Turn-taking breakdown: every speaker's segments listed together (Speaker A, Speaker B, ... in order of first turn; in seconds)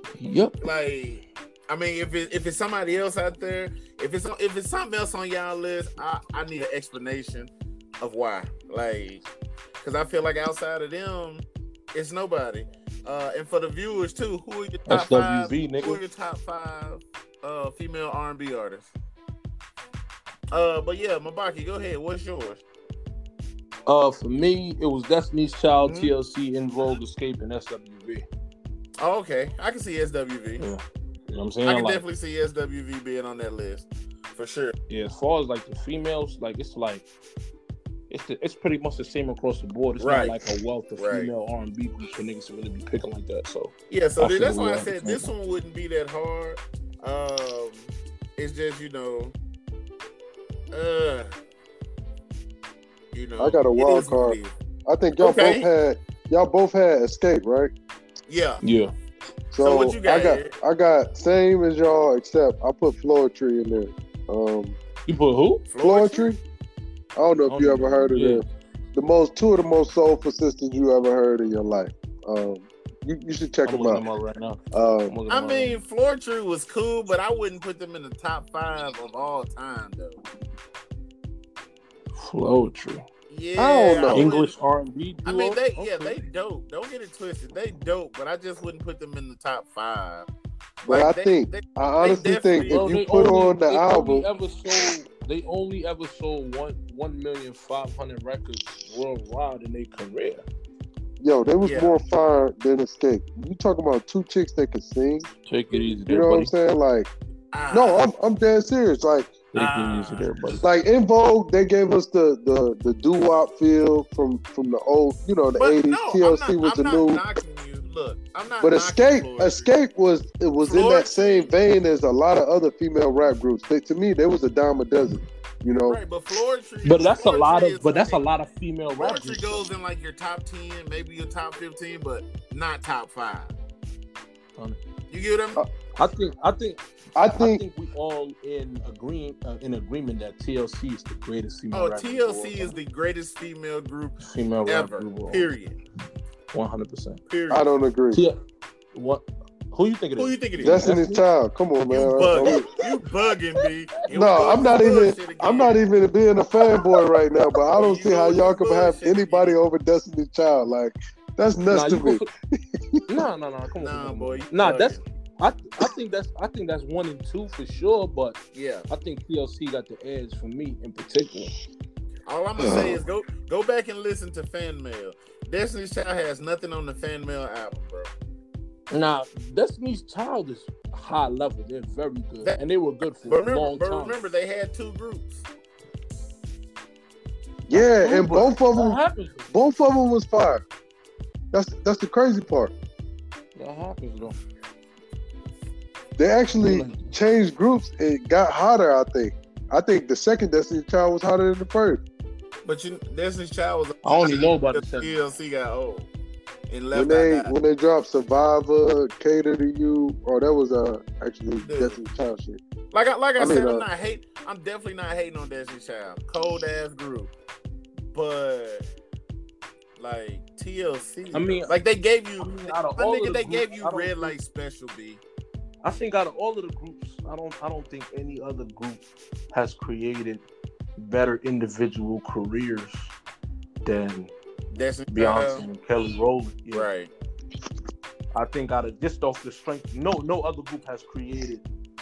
Speaker A: 0.2-0.6, 14.9-16.0, 23.9-28.3, 30.6-32.0, 34.9-37.0, 38.1-45.3, 58.6-58.9, 65.1-65.7, 67.5-68.4, 73.7-75.8, 82.2-83.0, 84.1-86.2, 92.7-100.5, 105.5-106.5, 109.5-110.7, 126.8-129.7, 136.0-136.8, 137.3-142.8, 144.2-145.5, 146.5-147.2, 148.9-151.2, 154.2-154.5, 161.7-162.3, 163.1-171.5, 178.9-184.2, 187.7-189.5, 193.6-194.4, 196.5-197.1, 204.0-205.2, 221.3-221.7, 222.4-224.4, 225.8-230.4, 231.0-233.1, 233.8-234.3, 235.1-236.9, 238.3-241.6
Speaker B: 0.6-9.2, 9.8-18.9, 20.5-22.6, 25.8-26.1, 29.0-30.6, 31.7-34.7, 40.0-40.4, 41.0-41.3, 43.9-49.4, 50.7-51.3, 53.1-54.5, 55.2-55.7, 58.3-58.6, 59.6-60.5, 65.7-66.3, 75.3-80.2, 83.3-84.5, 85.2-90.3, 90.8-92.8, 101.6-102.0, 107.5-108.0, 109.5-110.3, 115.6-119.7, 120.6-121.5, 125.9-128.2, 129.0-133.5, 135.1-135.6, 141.7-145.8, 147.3-147.6, 150.2-150.9, 151.9-155.8, 157.7-159.6, 163.8-165.0, 168.5-168.9, 172.3-178.1, 183.2-185.5, 202.7-206.1, 206.7-207.5, 211.6-212.0, 212.9-217.3, 218.1-218.9, 220.0-225.2, 234.7-235.7, 236.7-237.1
Speaker C: 53.4-57.7, 59.5-64.8, 65.8-66.4, 67.2-68.4, 69.0-74.0, 74.7-75.1, 83.6-84.3, 90.9-94.3, 101.2-105.3, 106.1-107.1, 107.7-109.3, 110.6-117.2, 118.6-126.0, 137.2-137.6, 147.5-148.2, 150.6-152.7, 154.1-163.0, 172.6-173.0, 187.7-190.6, 191.5-192.7, 196.2-202.0, 206.9-212.6, 213.4-213.8